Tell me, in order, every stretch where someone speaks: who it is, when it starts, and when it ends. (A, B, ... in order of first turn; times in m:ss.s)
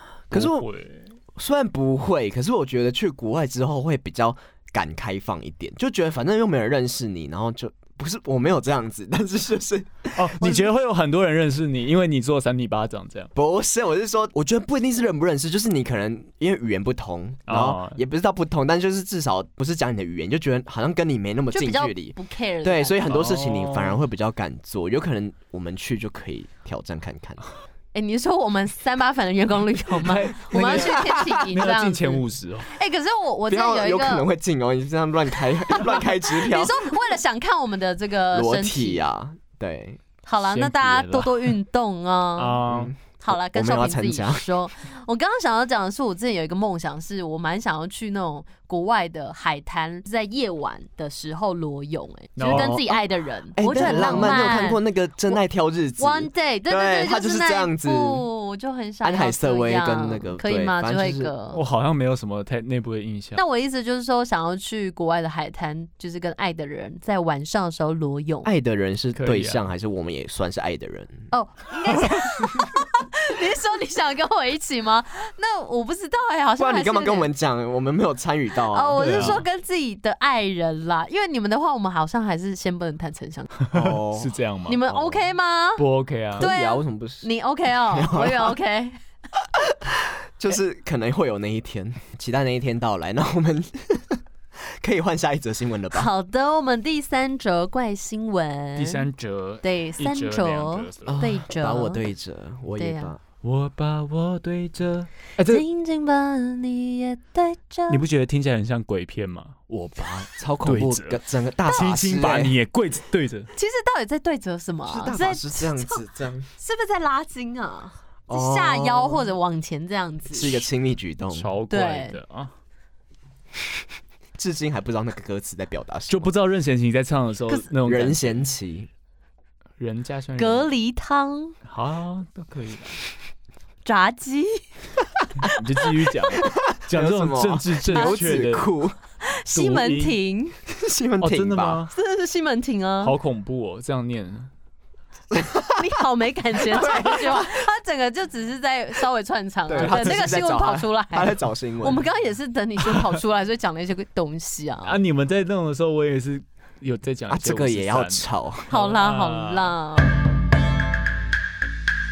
0:00.3-0:00.7 A
0:00.3-0:01.1 B
0:01.4-0:10.7 A
0:10.2-0:13.3 B
0:13.4-0:27.4 A
0:17.5-0:18.0 B
0:21.5-0:23.0 C
0:23.1-0:24.0 B
0:27.9-0:34.3 C
0:30.0-0:32.7 B
0:30.5-0:31.4 A
0:33.5-0:36.9 A
0:35.8-0:39.0 C
0:38.3-0:40.0 A
0:40.2-0:42.6 C
0:40.4-0:41.5 B
0:42.4-0:42.9 B
0:42.7-0:44.4 A
0:43.2-0:54.8 C
0:52.4-0:52.8 B
0:52.4-0:53.0 A
0:53.6-0:58.3 A
0:53.7-0:54.4 B
0:56.0-1:01.6 C
0:59.0-1:01.3 A
1:01.5-1:03.4 B
1:03.4-1:08.5 C
1:08.4-1:11.3 A
1:09.2-1:09.6 B
1:11.3-1:17.3 C
1:16.6-1:19.4 A
1:18.7-1:23.5 C
1:19.0-1:19.4 B
1:23.6-1:25.0 B
1:23.7-1:24.3 A
1:24.7-1:25.8 C
1:25.8-1:26.5 B
1:26.4-1:27.3 A
1:26.4-1:29.0 C
1:27.9-1:28.6 A
1:29.6-1:36.1 A
1:35.9-1:39.0 C
1:38.8-1:41.3 B
1:39.6-1:42.1 C
1:41.1-1:43.2 A
1:42.8-1:43.1 C
1:43.4-1:45.6 B
1:45.4-1:48.0 C
1:47.9-1:53.5 B
1:50.4-1:52.6 A
1:53.5-1:56.0 C
1:54.9-1:56.5 A
1:56.6-2:00.6 C
1:58.3-1:59.3 A
2:00.3-2:01.5 A
2:01.3-2:02.5 B
2:01.7-2:02.2 C
2:04.4-2:06.3 A
2:06.1-2:08.4 B
2:07.8-2:08.9 A
2:09.8-2:10.7 B
2:10.4-2:11.6 C
2:11.7-2:13.0 B
2:13.8-2:14.6 C
2:15.4-2:18.7 B
2:16.8-2:19.0 A
2:17.9-2:18.2 C
2:19.2-2:20.6 C
2:19.5-2:20.2 B
2:20.7-2:21.8 A
2:21.2-2:21.9 B
2:21.9-2:23.2 C
2:23.0-2:24.5 B
2:25.3-2:25.8 A
2:25.7-2:35.0 C
2:26.7-2:27.6 A
2:29.7-2:32.0 A
2:29.8-2:30.3 B
2:34.9-2:39.7 B
2:37.3-2:38.7 A
2:38.7-2:40.2 C